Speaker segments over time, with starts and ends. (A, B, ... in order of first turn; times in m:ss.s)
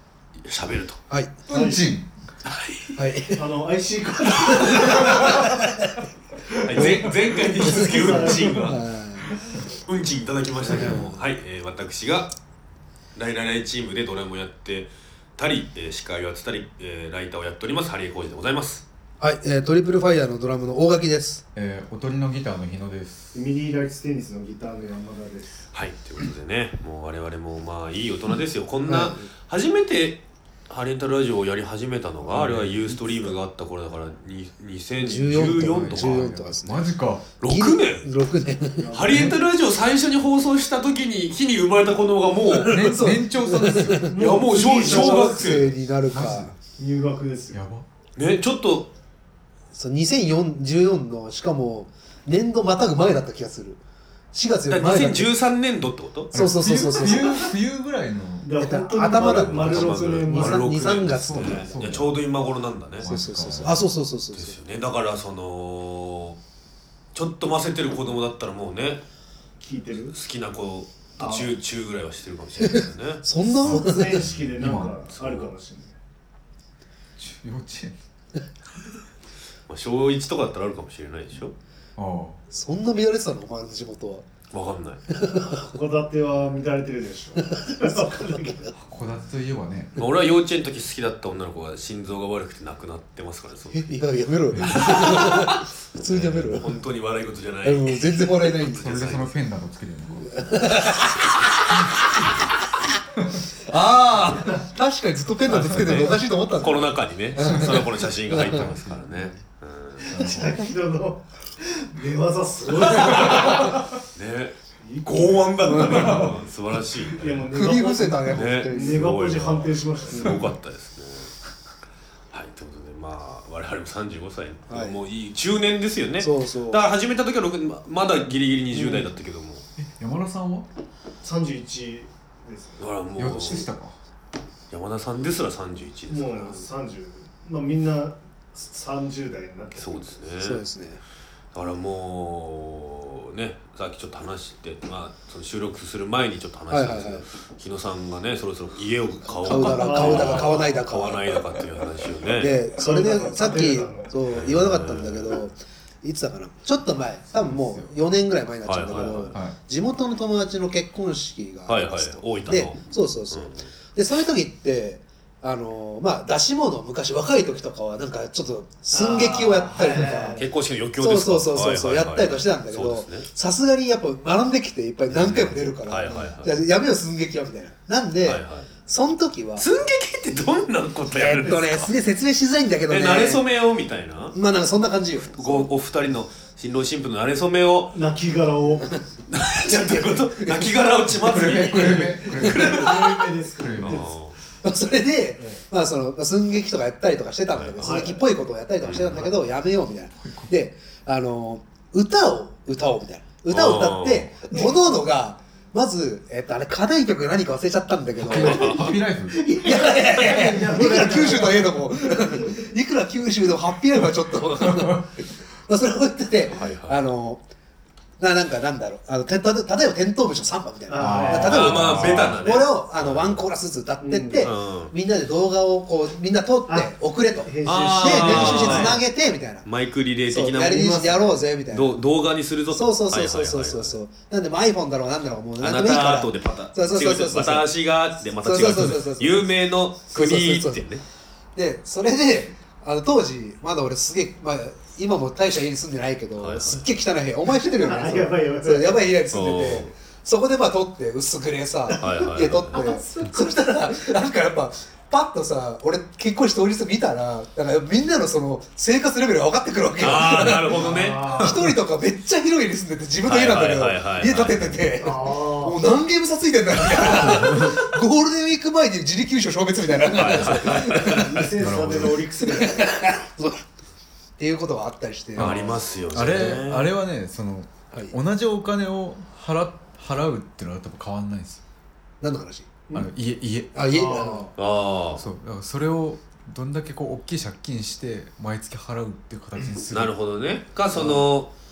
0:00.4-0:01.0 A
0:01.1-0:02.0 B
0:01.5-0:01.9 C
0:02.4-0:03.0 A
0:03.0-0:03.5 B
0:03.3-0:05.7 C
0:04.5-0:05.2 A
0:04.5-0:05.8 B
0:06.5-0:08.8 C
0:06.6-0:08.8 A
0:06.7-0:09.3 B
0:09.8-0:12.3 A
0:10.7-0:11.1 B
0:10.7-0:11.0 C
0:13.2-0:18.9 A
0:19.2-0:21.4 B
0:21.6-0:23.3 D
0:23.3-0:25.7 C
0:25.7-0:36.4 A
0:28.9-0:29.3 B
0:32.2-0:33.3 D
0:35.0-0:36.9 B
0:35.4-0:37.3 D
0:37.4-0:38.1 A
0:37.4-0:39.0 B
0:38.8-0:39.3 C
0:38.9-0:43.1 A
0:42.5-0:46.6 B
0:42.6-0:44.2 D
0:44.1-0:45.7 A
0:44.2-0:45.3 C
0:46.1-0:46.5 D
0:46.8-0:47.6 C
0:47.5-0:47.8 D
0:48.2-0:48.9 A
0:49.7-0:53.8 B
0:54.3-0:55.4 B
0:54.7-0:57.3 A
0:56.3-0:57.4 B
0:56.3-0:58.6 D
0:58.4-1:01.1 C
0:58.6-1:02.0 B
0:59.2-1:03.1 A
1:01.0-1:02.2 D
1:03.0-1:03.8 D
1:03.0-1:04.6 B
1:04.3-1:06.4 A
1:07.2-1:09.0 A
1:09.6-1:10.2 C
1:10.1-1:13.3 A
1:11.2-1:11.6 C
1:12.6-1:14.3 B
1:13.6-1:14.9 D
1:13.6-1:16.0 C
1:14.1-1:15.5 A
1:17.2-1:18.0 D
1:19.7-1:21.6 A
1:22.0-1:22.4 D
1:22.5-1:24.2 B
1:24.5-1:25.0 A
1:25.1-1:25.7 B
1:25.5-1:28.7 C
1:27.4-1:28.8 B
1:28.9-1:30.0 D
1:30.0-1:33.9 A
1:33.7-1:36.8 B
1:34.5-1:34.8 D
1:34.7-1:39.3 A
1:37.6-1:38.9 B
1:38.7-1:40.5 D
1:40.4-1:41.2 B
1:43.6-1:48.6 B
1:45.5-1:50.4 A
1:48.5-1:49.4 D
1:50.1-1:50.6 D
1:50.1-1:53.8 C
1:53.0-1:57.5 A
1:53.1-1:53.4 B
1:54.8-1:56.4 C
1:55.6-1:56.3 B
1:57.0-2:00.5 C
1:57.5-1:59.1 B
1:58.3-2:01.3 A
2:02.3-2:09.6 A
2:04.7-2:05.0 B
2:06.2-2:06.9 B
2:09.8-2:10.7 D
2:11.2-2:12.9 C
2:12.8-2:13.7 A
2:13.2-2:14.0 D
2:14.7-2:16.7 A
2:16.1-2:20.1 C
2:19.8-2:20.6 A
2:20.4-2:21.0 B
2:21.5-2:32.7 A
2:26.7-2:27.2 B
2:29.3-2:31.6 B
2:29.5-2:30.8 C
2:32.3-2:50.4 B
2:32.7-2:34.2 C
2:34.3-2:35.4 A
2:37.3-2:37.9 D
2:38.6-2:39.4 A
2:38.9-2:39.3 C
2:41.7-2:43.7 A
2:48.9-2:50.5 C
2:50.0-2:53.3 A
2:51.0-2:59.7 B
2:55.1-2:56.6 A
2:58.2-2:58.7 A
2:59.6-3:02.0 A
3:01.1-3:03.5 B
3:02.9-3:04.4 A
3:04.3-3:05.7 B
3:05.4-3:08.0 A
3:07.9-3:09.0 C
3:09.3-3:13.0 A
3:09.6-3:10.7 B
3:11.2-3:13.0 D
3:11.7-3:14.1 C
3:12.4-3:13.0 B
3:13.6-3:14.0 D
3:13.8-3:14.4 A
3:14.6-3:37.4 B
3:17.5-3:18.0 A
3:17.8-3:18.2 C
3:18.8-3:19.2 A
3:19.1-3:19.4 C
3:20.2-3:20.5 D
3:23.5-3:24.4 A
3:28.2-3:29.6 D
3:28.3-3:28.9 A
3:29.5-3:32.6 C
3:34.6-3:35.0 D
3:36.5-3:37.0 A
3:38.2-3:49.7 B
3:40.9-3:42.0 C
3:41.0-3:42.4 D
3:41.4-3:43.4 A
3:44.0-3:44.5 C
3:44.4-3:44.9 A
3:46.7-3:49.0 C
3:47.6-3:49.0 A
3:48.4-3:48.9 D
3:49.6-3:53.9 A
3:50.3-3:52.0 B
3:50.6-3:51.3 C
3:52.7-3:59.5 B
3:55.6-4:01.0 A
4:00.1-4:00.8 B
4:01.6-4:31.5 B
4:06.4-4:06.9 A
4:07.6-4:09.2 C
4:09.3-4:09.9 A
4:12.0-4:12.8 A
4:12.7-4:13.4 C
4:20.0-4:21.3 A
4:20.7-4:21.7 C
4:23.2-4:24.9 A
4:25.0-4:25.8 C
4:27.2-4:27.9 D
4:30.1-4:31.5 A
4:30.9-4:32.8 C
4:31.6-4:32.3 D
4:32.4-4:33.6 B
4:34.4-4:35.8 B
4:35.4-4:41.6 D
4:35.4-4:37.0 A
4:36.3-4:36.6 B
4:42.2-4:42.8 B
4:42.9-4:43.9 D
4:43.7-4:44.5 B
4:43.8-4:44.5 C
4:44.6-4:45.2 A
4:45.2-4:50.2 D
4:49.8-4:51.5 A